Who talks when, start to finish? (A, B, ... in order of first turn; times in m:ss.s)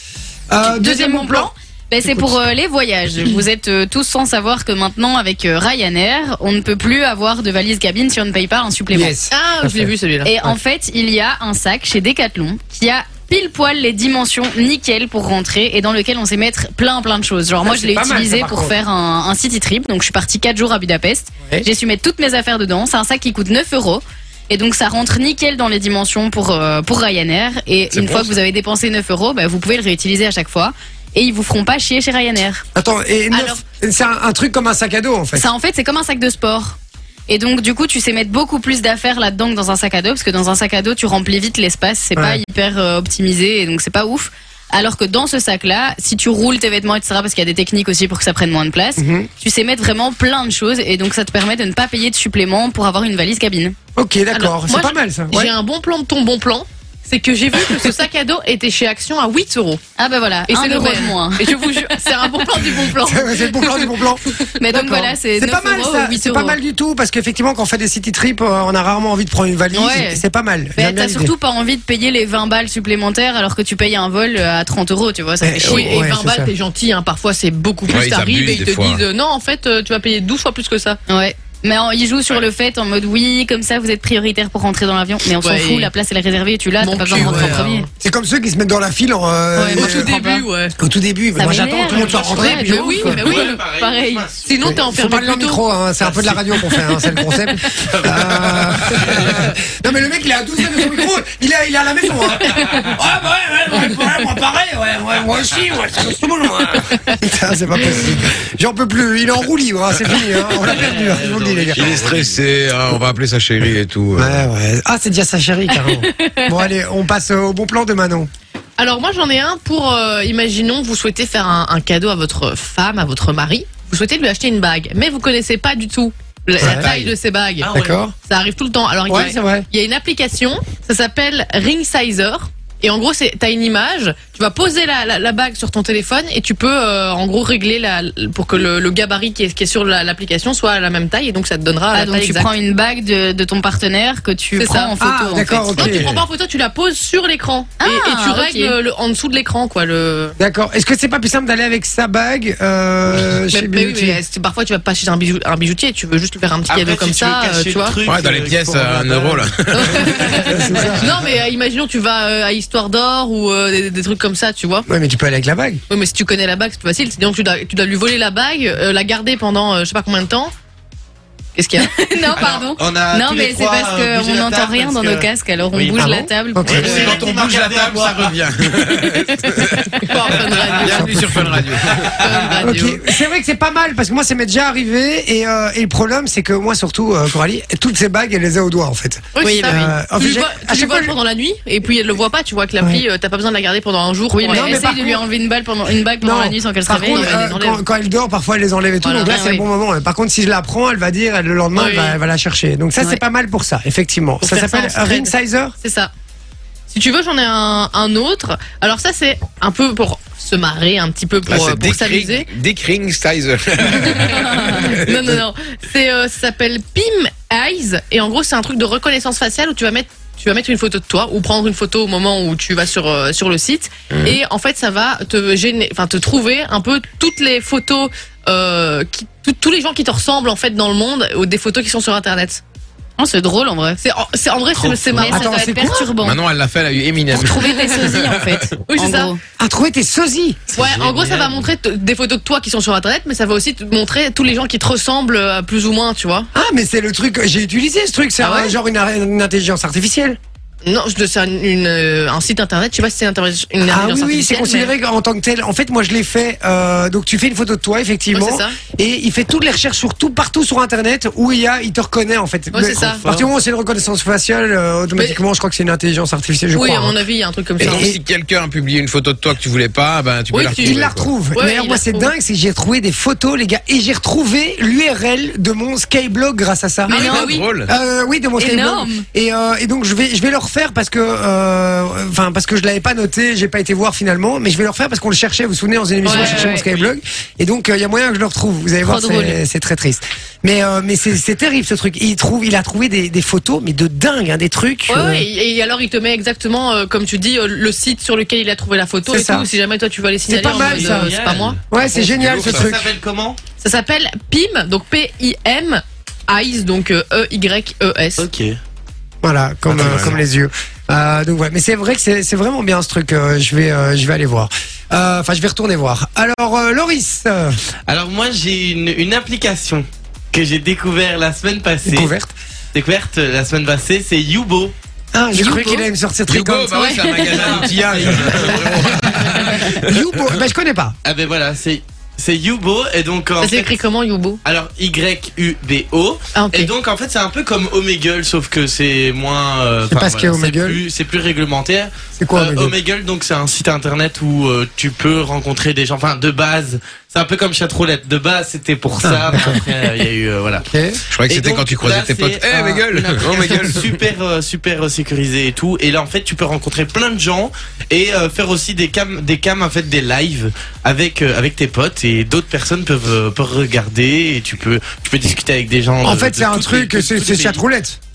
0:00.5-0:01.5 A
0:00.6-0:09.1 B
0:02.0-0:02.4 A
0:08.9-0:09.9 A
0:09.3-0:10.3 C
0:10.2-0:32.6 B
0:17.6-0:18.8 A
0:27.9-0:28.3 D
0:32.8-0:35.5 A
0:33.3-0:33.6 C
0:35.3-0:36.8 B
0:37.3-0:53.8 B
0:42.2-0:42.4 A
0:49.0-0:49.3 A
0:54.0-0:55.5 A
0:54.3-0:59.8 C
1:00.0-1:02.0 B
1:00.5-1:04.5 C
1:02.9-1:11.3 A
1:04.6-1:06.6 B
1:09.7-1:10.2 B
1:10.8-1:16.0 B
1:15.4-1:16.5 A
1:15.6-1:21.0 C
1:17.9-1:19.0 D
1:21.1-1:27.9 B
1:25.3-1:25.9 C
1:26.8-1:27.9 C
1:27.1-1:30.2 A
1:29.6-1:30.8 C
1:29.6-1:30.4 B
1:30.8-1:33.2 A
1:31.4-1:34.3 B
1:31.9-1:34.8 E
1:32.2-1:33.6 C
1:34.4-1:35.6 C
1:34.6-1:52.1 A
1:36.0-1:36.5 E
1:37.8-1:39.4 E
1:50.6-1:52.4 E
1:51.8-1:54.4 D
1:54.2-1:58.3 A
1:55.8-1:56.5 B
1:58.8-2:22.5 C
2:06.6-2:06.9 A
2:07.6-2:08.0 E
2:07.7-2:08.1 A
2:09.1-2:09.7 A
2:21.9-2:26.0 B
2:24.6-2:24.9 C
2:25.0-2:26.2 A
2:25.7-2:30.4 C
2:27.8-2:28.8 B
2:30.4-2:34.2 A
2:33.5-2:38.0 C
2:36.7-2:40.5 E
2:38.1-2:40.0 D
2:39.7-2:44.9 C
2:40.5-2:41.1 A
2:44.9-2:45.8 A
2:45.9-2:50.5 C
2:51.6-2:51.9 C
2:51.8-2:57.1 B
2:52.4-2:56.1 E
2:56.0-2:57.0 A
2:56.6-3:02.2 D
2:56.7-2:58.4 E
3:00.0-3:01.2 C
3:00.4-3:00.8 E
3:00.8-3:01.8 A
3:01.8-3:02.7 E
3:02.2-3:03.0 C
3:02.6-3:11.2 A
3:09.3-3:14.9 C
3:09.4-3:09.9 B
3:14.3-3:17.6 B
3:14.5-3:15.2 A
3:16.2-3:25.8 A
3:17.0-3:17.8 C
3:19.0-3:19.4 C
3:19.3-3:19.6 B
3:21.7-3:22.2 C
3:24.4-3:26.1 C
3:26.9-3:32.5 C
3:31.5-3:35.4 D
3:33.9-3:52.6 C
3:44.1-3:44.4 D
3:53.2-3:54.0 B
3:54.0-3:56.1 C
3:54.8-3:55.3 E
3:55.2-3:56.4 B
3:55.3-3:56.1 A
3:56.2-3:58.7 D
3:57.3-3:59.4 B
3:58.9-3:59.3 C
3:59.6-4:00.7 A
4:00.7-4:06.5 C
4:00.8-4:01.7 E
4:06.5-4:10.4 A
4:08.4-4:08.8 C
4:10.8-4:14.9 C
4:13.9-4:27.2 A
4:18.3-4:18.8 C
4:22.7-4:23.2 C
4:25.2-4:25.4 C
4:26.7-4:28.1 C
4:27.8-4:28.2 A
4:27.8-4:31.3 D
4:30.5-4:32.3 C
4:30.8-4:55.5 A
4:37.1-4:37.7 C
4:37.1-4:37.6 B
4:37.4-4:37.9 D
4:38.6-4:39.2 B
4:46.2-4:46.8 C
4:46.3-4:46.8 B
4:46.7-4:47.1 E
4:49.0-4:49.6 B
4:55.1-5:01.8 C
4:59.3-4:59.7 A
5:00.5-5:01.3 A
5:00.6-5:01.8 E
5:01.9-5:03.1 A
5:02.1-5:02.9 D
5:02.4-5:03.6 E
5:03.8-5:08.5 C
5:08.4-5:08.8 E
5:09.4-5:17.8 A
5:09.9-5:10.4 D
5:18.1-5:22.3 E
5:22.0-5:22.5 A
5:22.9-5:24.9 E
5:25.3-5:27.1 A
5:25.6-5:25.9 C
5:26.5-5:30.2 D
5:27.0-5:27.6 B
5:27.5-5:29.8 E
5:29.8-5:31.2 A
5:31.2-5:34.0 E
5:33.6-5:34.6 C
5:34.6-5:50.9 E
5:36.6-5:36.9 C
5:40.1-5:41.0 A
5:42.4-5:43.0 A
5:49.2-5:49.8 A
5:50.9-5:51.2 A
5:51.3-5:54.1 D
5:51.5-6:07.8 E
6:06.2-6:08.2 A